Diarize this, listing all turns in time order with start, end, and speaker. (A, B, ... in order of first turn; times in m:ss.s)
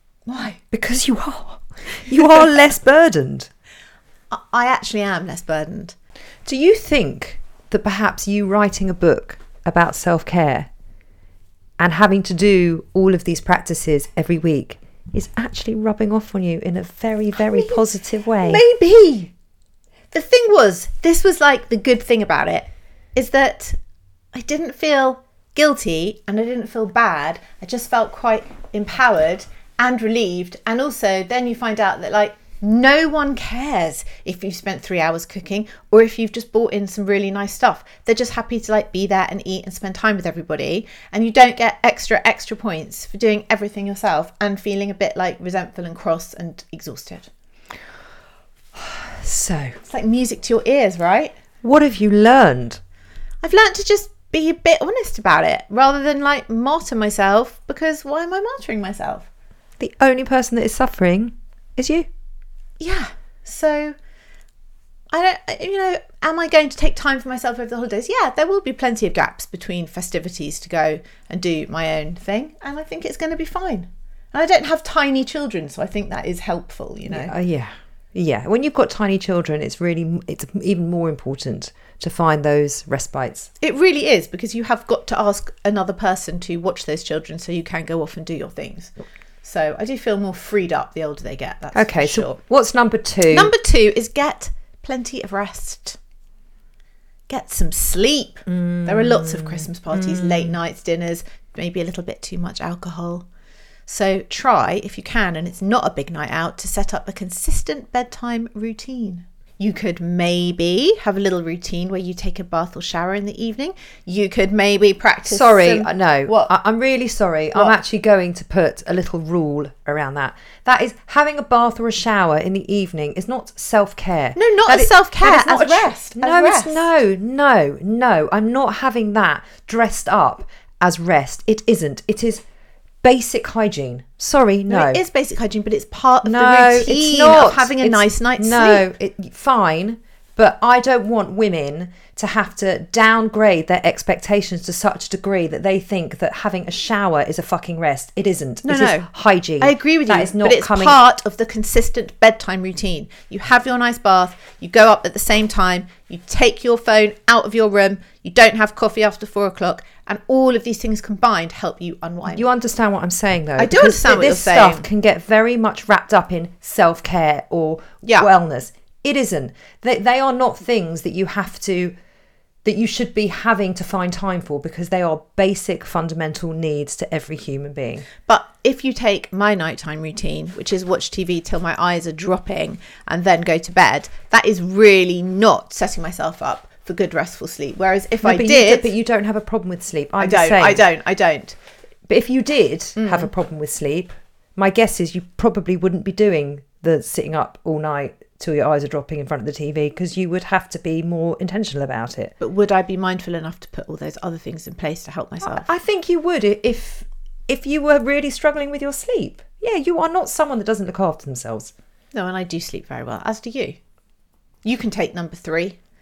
0:00.3-0:00.6 A
0:00.7-0:03.5 B
0:04.3-0:06.0 A
0:06.4-0:10.7 B
0:11.8-0:18.6 B
0:17.4-0:19.3 A
0:20.1-0:23.8 A
0:24.3-0:47.3 A
0:48.7-0:49.8 B
0:49.8-0:51.3 A
0:51.6-0:52.8 B
0:53.4-0:59.3 A
0:59.8-1:02.1 B
1:02.8-1:03.9 A
1:05.1-1:17.3 A
1:17.1-1:23.5 B
1:23.6-1:28.9 A
1:29.4-1:32.4 A
1:31.7-1:33.5 B
1:33.3-1:36.0 A
1:37.3-1:43.2 A
1:38.5-1:40.6 B
1:43.9-1:56.5 A
1:55.3-2:12.4 B
2:04.3-2:06.9 A
2:13.0-2:15.0 B
2:14.7-2:18.9 A
2:16.2-2:31.0 B
2:28.6-2:29.1 A
2:29.6-2:42.5 A
2:42.3-2:51.9 B
2:43.6-2:44.9 A
2:48.0-2:48.3 A
2:52.6-2:58.1 B
2:58.2-3:08.9 A
3:08.2-3:10.8 B
3:10.2-3:11.6 A
3:12.1-3:22.3 B
3:13.0-3:13.3 A
3:22.4-3:25.7 A
3:25.4-3:31.7 B
3:32.1-3:33.8 A
3:34.6-3:35.8 A